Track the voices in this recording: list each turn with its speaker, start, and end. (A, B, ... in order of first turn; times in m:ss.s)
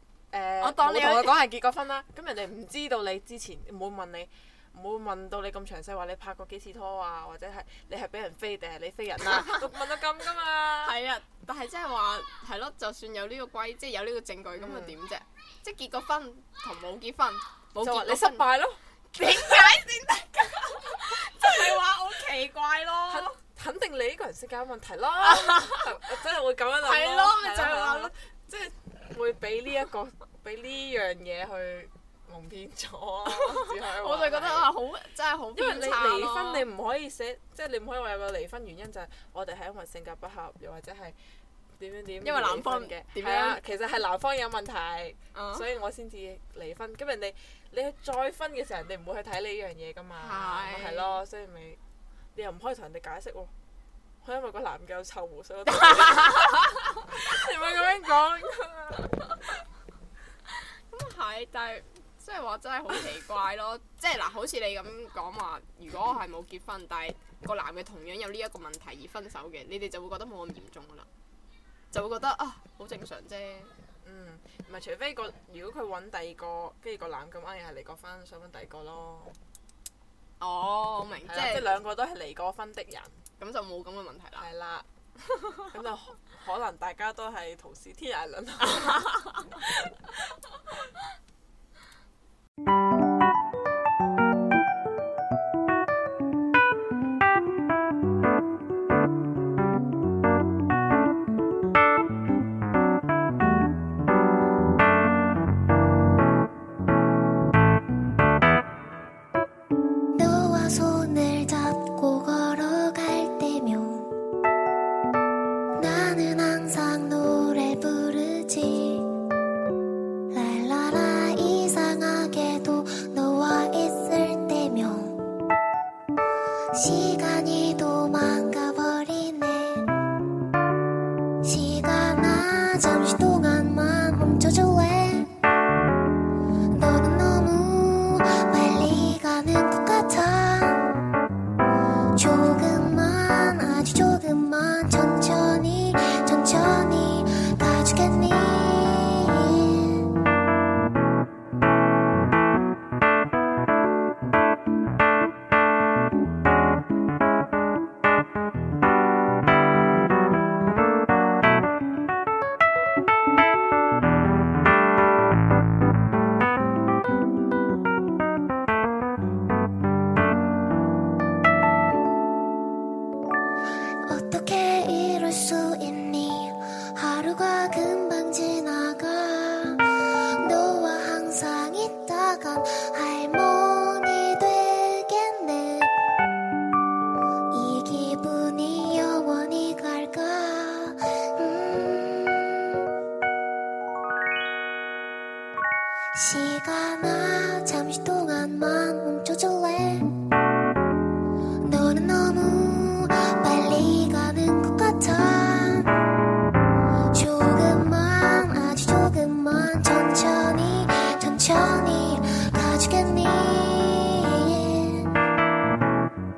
0:00.3-0:11.0 A
0:00.6-0:01.4 B
0:09.3-0:09.6 B
0:10.8-0:18.5 B
0:14.6-0:14.9 A
0:17.8-0:19.7 A
0:19.1-0:23.4 B
0:23.1-0:34.7 A
0:25.2-0:26.0 B
0:26.8-0:28.1 B
0:33.3-0:36.7 B
0:35.6-0:41.2 A
0:41.8-0:51.8 A
0:42.2-0:43.6 B
0:45.3-0:45.7 B
0:50.2-0:51.2 B
0:52.3-0:53.5 A
0:54.2-0:59.4 A
0:56.2-0:56.5 B
1:00.5-1:11.1 B
1:11.9-1:13.7 B
1:14.0-1:19.4 A
1:20.4-1:21.8 B
1:21.2-1:23.2 A
1:23.4-1:24.5 B
1:24.4-1:24.9 A
1:25.3-1:25.6 B
1:25.7-1:30.4 A
1:28.8-1:29.4 B
1:50.2-1:54.1 C
1:55.8-1:59.1 C
2:00.3-2:05.2 C
2:06.7-2:09.9 C
2:11.4-2:15.3 C
2:16.7-2:20.9 C
2:22.2-2:30.1 C
2:54.0-3:05.9 C
3:07.5-3:12.9 C
3:16.1-3:20.1 C
3:21.6-3:25.9 C
3:27.1-3:35.1 C